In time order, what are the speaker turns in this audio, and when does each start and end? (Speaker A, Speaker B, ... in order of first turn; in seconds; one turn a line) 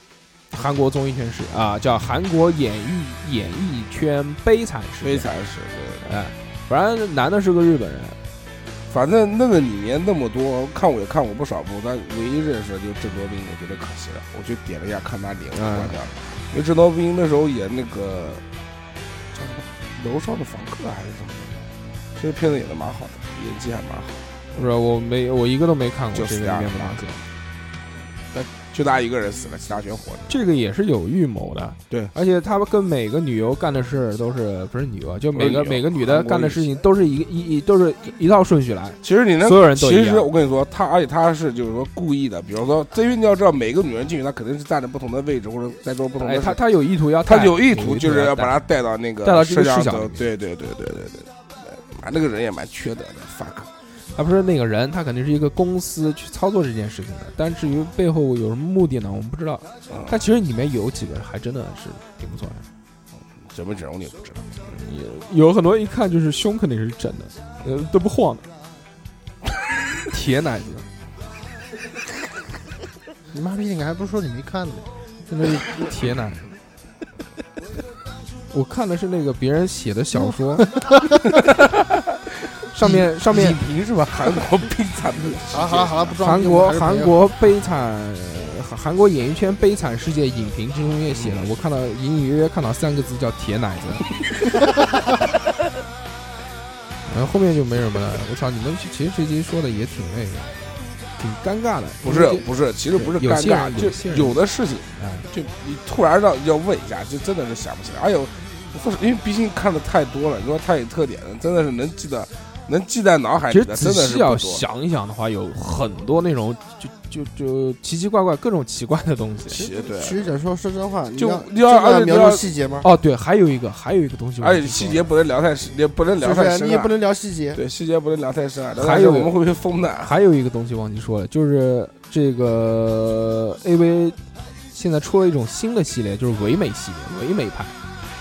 Speaker A: 0.5-5.3
Speaker B: 5.0-6.0
Speaker A: 6.0-8.2
Speaker B: 8.9-18.4
Speaker A: 15.5-16.0
Speaker B: 19.3-21.6
Speaker B: 22.1-24.2
Speaker A: 24.5-27.2
Speaker B: 26.1-27.1
Speaker B: 28.3-30.4
Speaker A: 30.3-40.3
Speaker B: 35.3-36.8
Speaker B: 39.0-53.7
Speaker A: 46.2-48.6
Speaker A: 49.2-50.3
Speaker A: 54.1-62.6
Speaker B: 59.9-60.2
Speaker B: 63.4-64.7
Speaker A: 64.7-68.5
Speaker A: 70.1-70.8
Speaker C: 73.3-74.8
Speaker A: 75.2-76.6
Speaker A: 78.5-80.7
Speaker C: 80.7-81.0
Speaker B: 81.5-82.0
Speaker A: 82.7-83.6
Speaker B: 82.9-86.2
Speaker C: 85.5-87.1
Speaker A: 86.2-94.1
Speaker B: 91.1-91.5
Speaker A: 97.0-104.4
Speaker B: 102.0-114.6
Speaker A: 105.0-105.3
Speaker A: 113.5-119.7
Speaker B: 119.5-120.3
Speaker D: 119.6-122.9
Speaker B: 121.2-122.5
Speaker A: 122.8-125.0
Speaker B: 124.4-126.9
Speaker D: 126.2-127.6
Speaker B: 127.5-130.1
Speaker A: 128.8-129.3
Speaker A: 130.0-134.2
Speaker A: 134.7-137.8